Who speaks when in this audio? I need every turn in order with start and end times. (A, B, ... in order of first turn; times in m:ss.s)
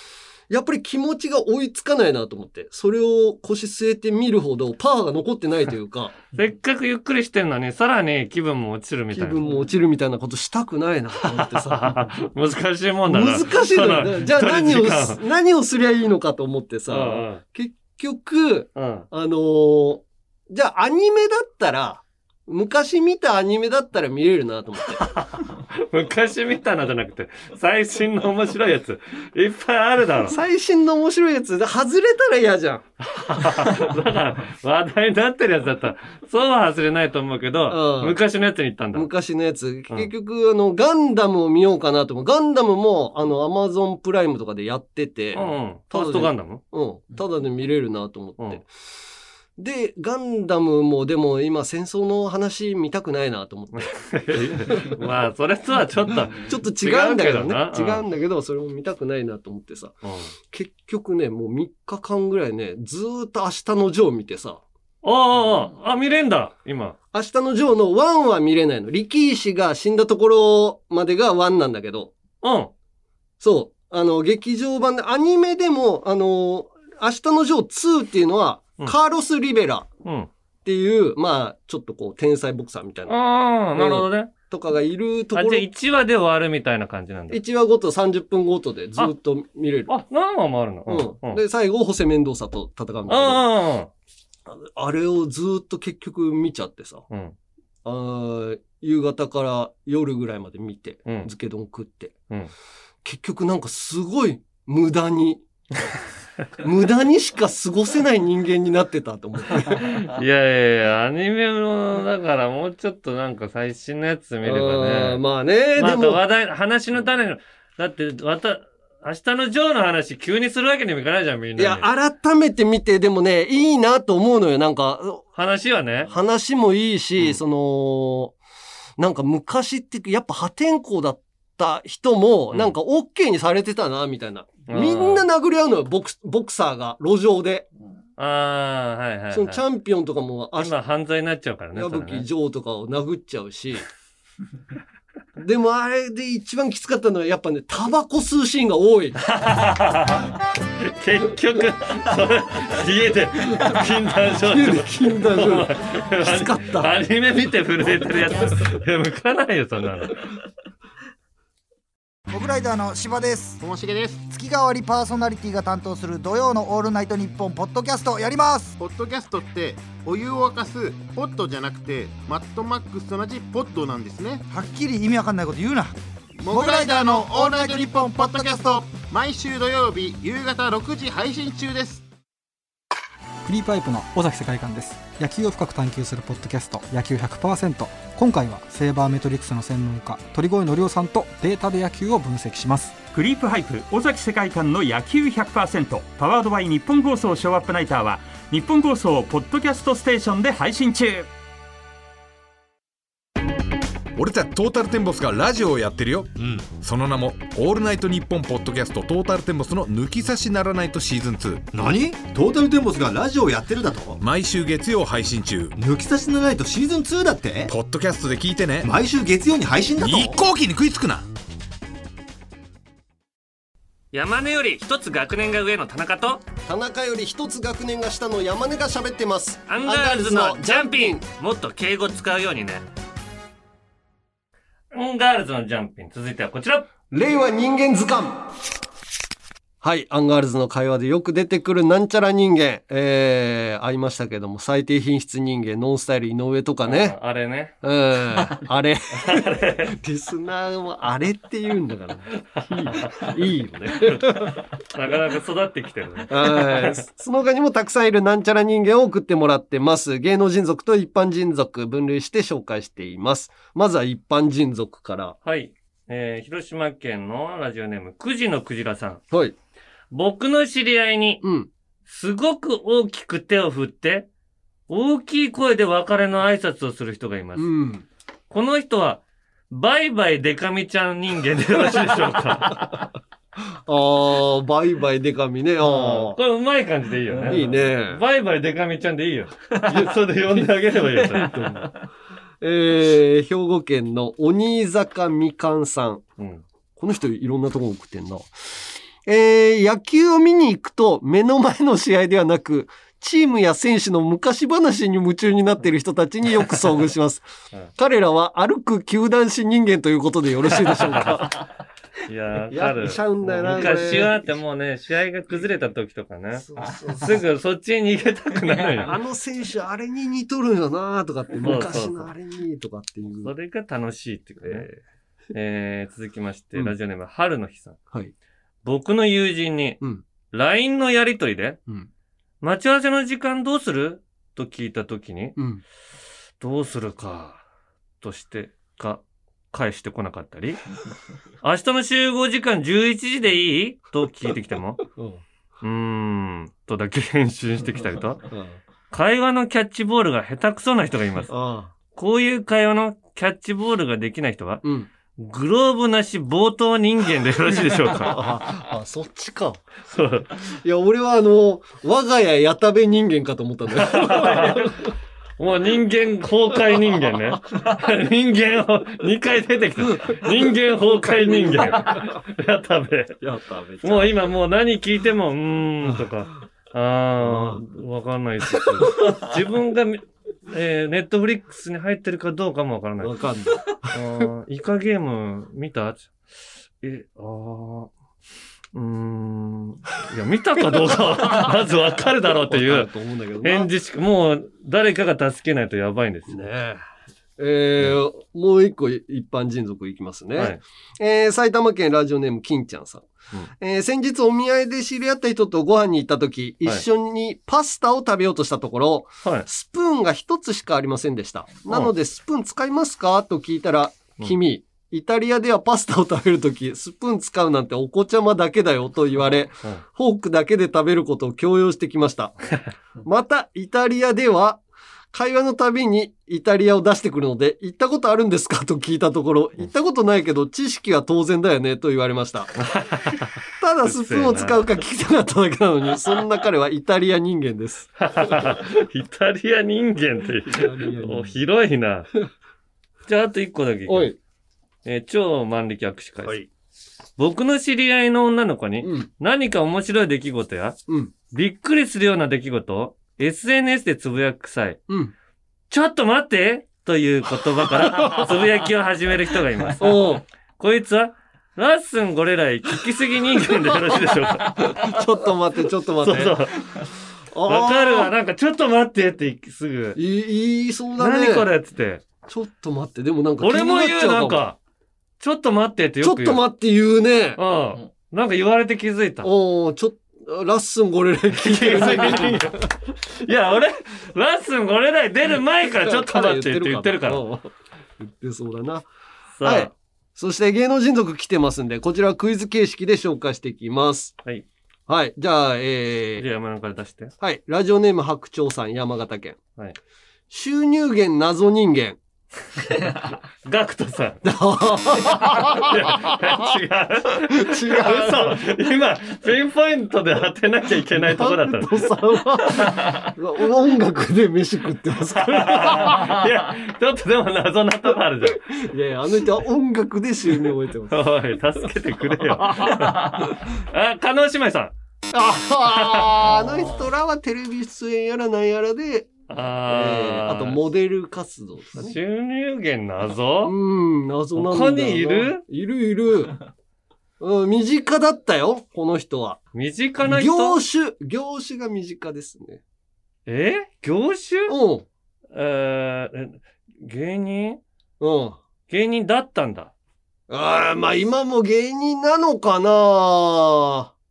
0:00.5-0:06.2 A
0:06.3-0:09.4 B
0:09.1-0:12.1 A
0:11.3-0:15.2 B
0:13.1-0:25.1 A
0:16.9-0:17.4 B
0:18.8-0:19.1 B
0:24.9-0:30.4 B
0:30.3-0:32.8 A
0:33.0-0:39.1 B
0:37.7-0:38.2 A
0:39.0-0:48.7 A
0:45.3-0:46.6 B
0:49.6-0:53.9 A
0:53.7-0:58.0 B
0:54.5-0:55.0 A
0:56.4-1:00.0 A
1:00.0-1:00.3 B
1:00.5-1:04.6 A
1:05.0-1:07.0 B
1:07.1-1:12.1 A
1:12.4-1:12.7 B
1:13.4-1:19.9 A
1:20.0-1:20.3 B
1:20.6-1:23.2 A
1:23.1-1:24.3 B
1:23.8-1:25.7 A
1:25.3-1:27.4 B
1:27.3-1:29.9 A
1:29.9-1:31.4 B
1:30.9-1:33.4 A
1:33.1-1:33.9 B
1:34.5-1:37.1 A
1:37.1-1:37.4 B
1:37.8-1:42.2 A
1:43.0-1:45.4 A
1:46.6-1:50.1 A
1:49.8-1:55.2 B
1:54.4-1:56.2 A
1:55.8-2:01.9 B
2:01.6-2:05.3 A
2:05.4-2:06.1 B
2:06.1-2:08.4 A
2:09.0-2:17.7 A
2:14.7-2:15.2 B
2:18.2-2:19.6 B
2:19.3-2:20.7 A
2:20.6-2:22.3 B
2:21.8-2:23.8 A
2:25.4-2:29.2 A
2:29.2-2:40.2 B
2:34.4-2:36.9 A
2:42.3-2:43.6 C
2:43.6-2:44.3 D
2:44.3-2:48.8 C
2:48.8-2:54.4 D
2:54.5-2:56.0 C
2:56.4-3:02.1 D
2:56.5-2:58.8 C
3:03.4-3:13.0 E
3:13.0-3:21.3 F
3:24.2-3:31.7 G
3:26.4-3:26.7 H
3:31.7-3:34.2 H
3:34.2-3:35.7 G
3:35.8-3:37.7 H
3:37.7-3:38.9 G
3:38.8-3:40.4 H
3:40.0-3:41.3 G
3:44.1-3:46.4 B
3:46.7-3:51.2 A
3:49.7-3:52.9 B
3:54.9-3:56.9 B
3:57.1-3:58.4 A
3:59.8-4:07.2 A
4:06.8-4:07.8 B
4:07.8-4:14.6 A
4:09.1-4:09.9 B
4:12.9-4:13.3 B
4:14.0-4:17.0 B
4:16.3-4:25.4 A
4:25.4-4:29.2 B
4:30.1-4:31.4 B
4:31.4-4:31.7 A
4:32.1-4:34.3 B
4:34.9-4:37.7 B
4:37.6-4:38.0 A
4:38.5-4:42.9 B
4:43.9-4:46.4 A
4:45.8-4:51.9 B
4:47.4-4:48.2 A
4:51.3-4:51.9 A
4:52.6-4:56.2 A
4:56.4-4:56.6 B
4:57.0-5:11.6 A
5:10.9-5:11.5 B
5:12.3-5:16.7 B
5:12.7-5:14.4 A
5:16.6-5:17.4 A
5:17.2-5:19.2 B
5:19.0-5:23.5 A
5:21.6-5:22.3 B
5:23.4-5:24.9 B
5:24.6-5:24.9 A
5:25.5-5:28.0 B
5:28.8-5:30.0 B
5:30.5-5:31.8 B
5:32.6-5:35.6 B
5:35.6-5:35.8 A
5:36.6-5:37.6 B
5:38.2-5:40.8 B
5:41.6-5:45.0 B
5:45.2-5:45.4 A
5:45.8-5:48.5 B
5:48.5-5:48.8 A
5:49.1-5:51.5 B
5:51.5-5:51.9 A
5:52.1-5:54.8 B
5:54.8-5:55.1 A
5:55.4-5:58.4 B
5:57.7-5:59.8 A
6:00.1-6:00.6 B
6:00.7-6:05.1 A
6:04.0-6:05.0 B
6:05.6-6:13.4 B
6:10.2-6:12.4 A
6:13.4-6:14.5 A
6:14.0-6:23.3 B
6:17.4-6:17.8 A
6:23.2-6:24.4 A
6:24.1-6:26.3 B
6:27.0-6:28.1 B
6:28.9-6:33.1 B
6:32.7-6:33.9 A
6:33.6-6:36.6 B
6:36.5-6:37.0 A
6:37.6-6:43.3 A
6:43.8-7:02.6 A
7:03.2-7:04.8 A
7:05.3-7:12.7 A
7:12.8-7:14.8 B
7:13.8-7:18.6 A
7:18.2-7:22.3 B
7:20.7-7:21.6 A
7:23.3-7:24.3 B
7:24.1-7:24.4 A
7:25.0-7:26.6 B
7:27.4-7:31.0 B
7:29.0-7:29.3 A
7:31.1-7:31.3 A
7:31.5-7:35.0 B
7:35.9-7:45.1 B
7:40.0-7:40.4 A
7:44.9-7:46.6 A
7:46.2-7:47.0 B
7:47.5-7:48.3 A
7:47.7-7:50.2 B
7:50.2-7:51.7 A
7:51.2-7:52.2 B
7:52.5-7:54.6 A
7:53.6-7:54.8 B
7:55.4-7:56.6 B
7:56.2-7:57.6 A
7:57.6-7:59.5 B
7:59.4-8:02.9 A
8:01.5-8:02.8 B
8:03.4-8:07.4 B
8:06.0-8:07.7 A
8:08.2-8:09.1 A
8:09.6-8:09.9 B
8:09.6-8:14.4 A
8:15.1-8:16.4 A
8:16.4-8:17.3 B
8:17.4-8:19.6 A
8:20.5-8:22.2 A
8:23.6-8:24.4 B
8:24.4-8:26.7 A
8:25.6-8:32.1 B
8:27.5-8:28.6 A
8:31.1-8:36.4 A
8:35.4-8:38.6 B
8:38.7-8:41.2 A
8:41.1-8:44.9 B
8:42.4-8:43.5 A
8:45.3-8:49.3 A
8:45.9-8:46.5 B
8:49.5-8:50.8 B
8:49.9-8:52.2 A
8:52.0-8:53.7 B
8:53.6-8:56.6 A
8:54.6-8:55.6 B
8:57.4-8:59.6 A
8:59.7-9:00.8 B
9:00.2-9:02.8 A
9:03.5-9:04.8 B
9:04.7-9:05.1 A
9:05.5-9:07.8 B
9:08.2-9:08.6 A
9:08.9-9:09.9 B
9:10.5-9:14.1 A